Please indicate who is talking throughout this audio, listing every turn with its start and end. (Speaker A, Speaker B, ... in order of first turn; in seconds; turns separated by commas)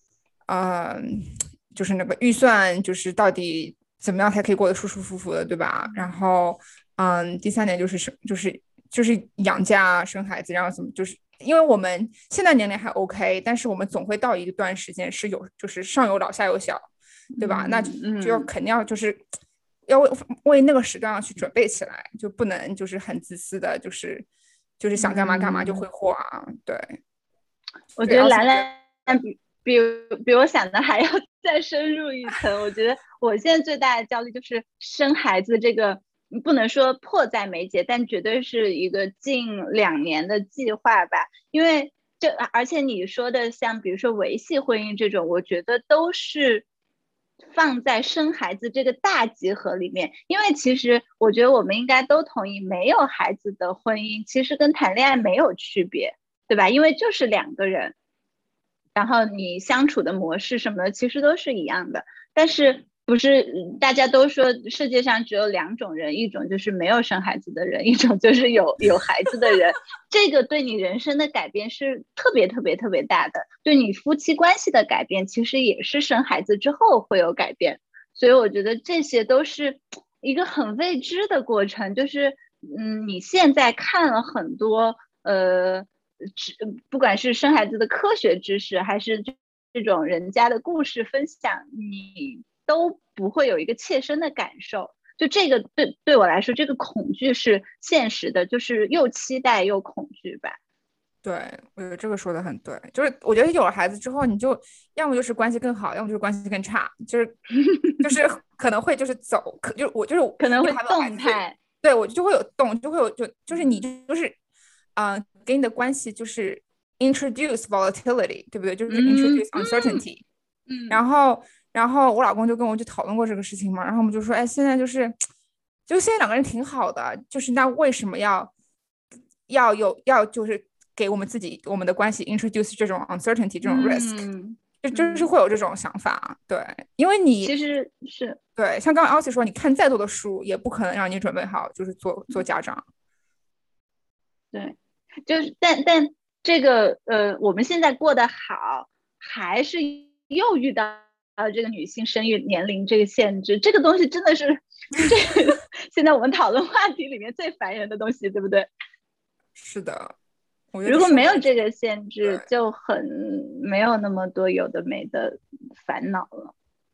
Speaker A: 0.5-19.2, Speaker B: 5.8-6.1, Speaker B: 17.3-18.5, Speaker A: 19.9-24.3, Speaker A: 24.8-27.0, Speaker B: 25.0-25.8, Speaker B: 28.0-46.6, Speaker A: 28.0-28.7, Speaker B: 47.5-57.9, Speaker B: 58.9-100.6, Speaker A: 101.2-107.4, Speaker B: 107.6-108.0, Speaker A: 108.0-114.4, Speaker B: 110.4-111.6, Speaker A: 115.0-120.2, Speaker B: 118.9-120.0, Speaker B: 120.7-121.0, Speaker A: 120.9-125.2, Speaker A: 125.9-128.5, Speaker A: 129.5-134.2, Speaker B: 133.6-135.3, Speaker A: 134.8-137.5, Speaker B: 137.4-138.4, Speaker A: 138.6-142.8, Speaker B: 144.5-158.7, Speaker A: 159.6-160.1, Speaker A: 160.7-161.5, Speaker B: 160.8-166.5